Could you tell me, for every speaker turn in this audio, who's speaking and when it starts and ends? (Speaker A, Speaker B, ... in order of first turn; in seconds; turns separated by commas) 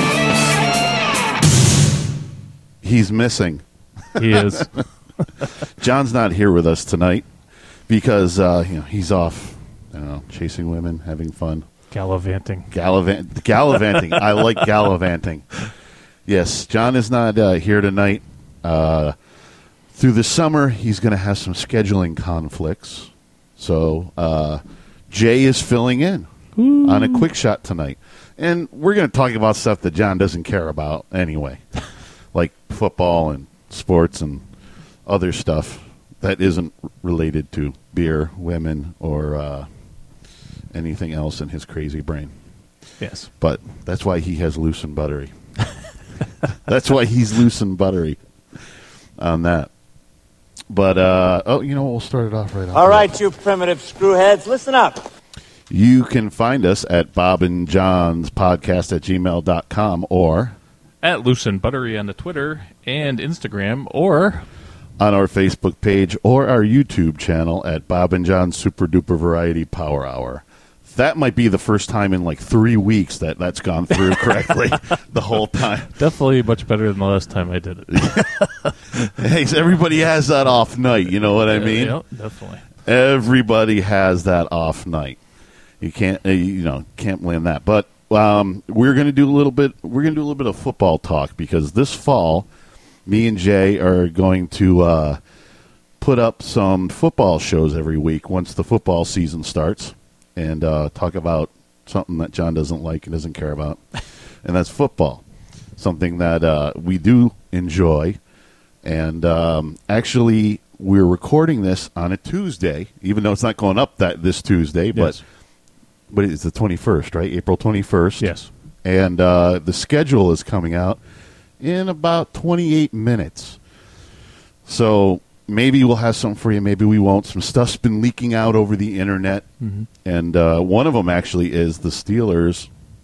Speaker A: 2.8-4.8, Speaker B: 4.2-4.9, Speaker A: 5.4-7.3, Speaker A: 7.9-11.7, Speaker B: 11.9-12.7, Speaker A: 12.7-15.6, Speaker A: 16.2-19.1, Speaker A: 19.9-26.3, Speaker B: 26.6-27.3, Speaker A: 26.8-31.6, Speaker A: 32.3-34.5, Speaker A: 35.0-39.7, Speaker A: 40.7-42.3, Speaker B: 43.0-43.3, Speaker A: 43.4-45.3, Speaker A: 46.6-48.2, Speaker A: 49.2-49.7, Speaker A: 50.7-53.1, Speaker C: 52.7-55.0, Speaker A: 55.7-60.5, Speaker B: 61.0-64.5, Speaker A: 65.0-76.0, Speaker B: 75.9-79.1, Speaker A: 77.9-78.2, Speaker A: 79.1-82.0, Speaker B: 81.4-82.7, Speaker A: 82.8-85.2, Speaker A: 85.8-92.5, Speaker A: 93.0-95.2, Speaker A: 96.0-103.8, Speaker A: 104.4-105.2, Speaker A: 105.8-108.2, Speaker A: 108.8-115.2, Speaker B: 114.9-115.2, Speaker A: 116.1-118.3, Speaker B: 118.2-118.5, Speaker A: 118.8-121.0, Speaker A: 121.6-123.6, Speaker A: 124.6-129.5, Speaker B: 129.6-129.9, Speaker A: 130.0-132.7